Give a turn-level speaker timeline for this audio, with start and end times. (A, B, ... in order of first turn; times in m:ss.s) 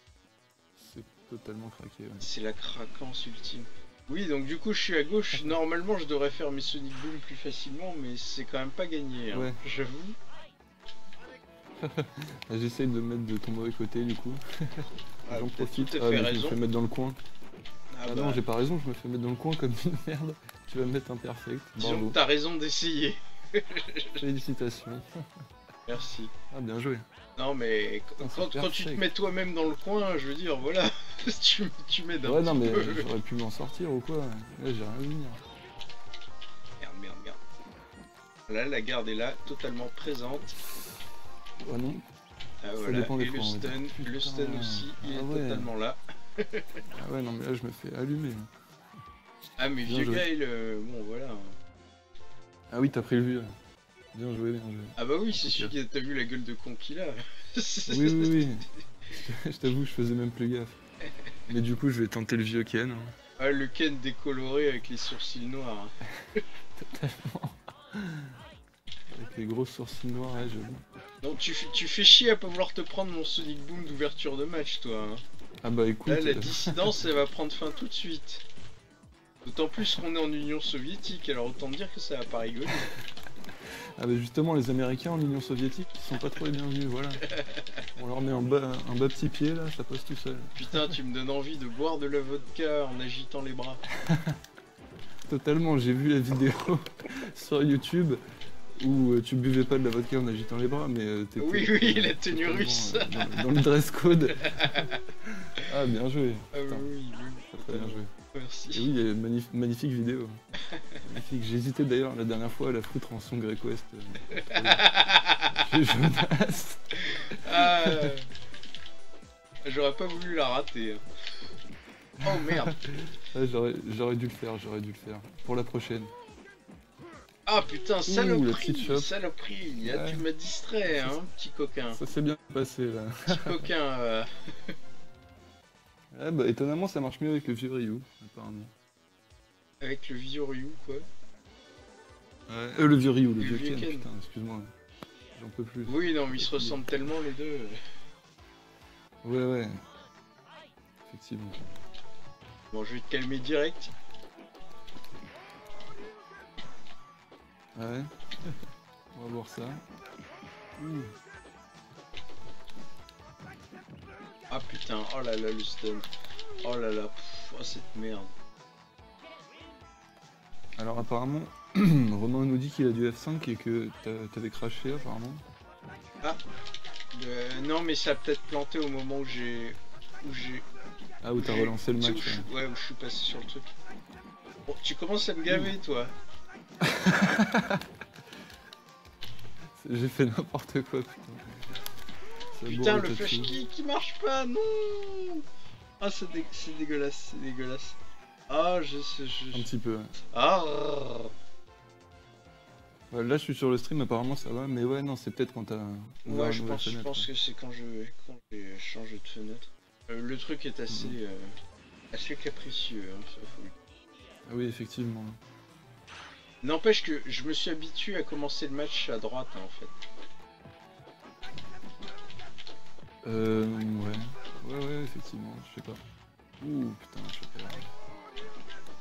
0:00.8-0:02.3 A
0:02.2-0:10.2 B
0:11.8-0:17.2 A
0:15.3-0:16.6 B
0:17.9-0:18.4 B
0:18.1-0:22.2 A
0:21.8-0:24.2 B
0:24.2-0:25.1 A
0:25.9-0:26.3 B
0:26.5-0:27.0 A
0:27.4-0:33.1 B
0:28.2-0:29.0 A
0:32.2-0:35.4 A
0:36.8-0:37.4 B
0:38.5-0:40.5 B
0:41.6-0:42.0 A
0:42.6-0:46.7 B
0:42.8-0:45.7 A
0:46.9-0:48.5 A
0:49.6-0:51.6 B
0:49.8-0:50.2 A
0:52.7-0:53.5 A
0:54.1-0:55.7 A
0:55.0-0:58.4 B
0:57.9-1:00.8 A
1:01.5-1:03.1 A
1:03.4-1:05.9 B
1:06.8-1:08.4 A
1:09.1-1:10.8 A
1:11.2-1:15.2 B
1:15.6-1:17.0 A
1:16.1-1:18.4 B
1:19.4-1:22.9 B
1:24.0-1:27.3 A
1:28.0-1:30.9 A
1:30.6-1:33.8 B
1:33.9-1:34.4 A
1:35.3-1:38.2 A
1:38.8-1:46.9 A
1:41.4-1:43.4 B
1:44.6-1:44.9 B
1:46.5-1:48.9 B
1:47.5-1:48.1 A
1:48.7-1:50.4 A
1:50.7-1:51.0 B
1:51.0-1:54.9 A
1:54.4-1:55.5 B
1:55.4-1:58.1 A
1:57.1-1:58.3 B
1:59.6-2:01.0 B
2:02.2-2:06.1 A
2:02.2-2:02.8 B
2:07.5-2:12.0 B
2:08.0-2:09.1 A
2:09.8-2:10.2 A
2:10.9-2:11.1 A
2:11.9-2:13.6 A
2:13.3-2:14.7 B
2:16.1-2:18.7 A
2:19.8-2:21.0 B
2:22.5-2:24.7 A
2:23.4-2:24.1 B
2:25.3-2:27.0 A
2:25.9-2:27.8 B
2:29.2-2:29.8 A
2:31.1-2:31.7 A
2:32.7-2:33.9 B
2:37.7-2:39.8 A
2:40.8-2:41.1 A
2:44.5-2:46.1 B
2:46.6-2:48.3 B
2:50.8-2:55.4 A
2:57.1-3:00.6 B
3:01.2-3:02.5 A
3:01.4-3:03.7 B
3:04.7-3:06.1 B
3:06.8-3:07.8 A
3:09.8-3:11.6 A
3:12.5-3:13.6 A
3:12.6-3:15.4 B
3:16.0-3:18.0 B
3:18.5-3:19.7 B
3:19.5-3:20.1 A
3:20.3-3:21.3 B
3:23.1-3:27.3 A
3:26.2-3:31.5 B
3:30.9-3:31.2 A
3:32.1-3:33.7 B
3:34.5-3:35.4 A
3:36.6-3:39.9 B
3:43.2-3:46.0 A
3:46.6-3:47.9 A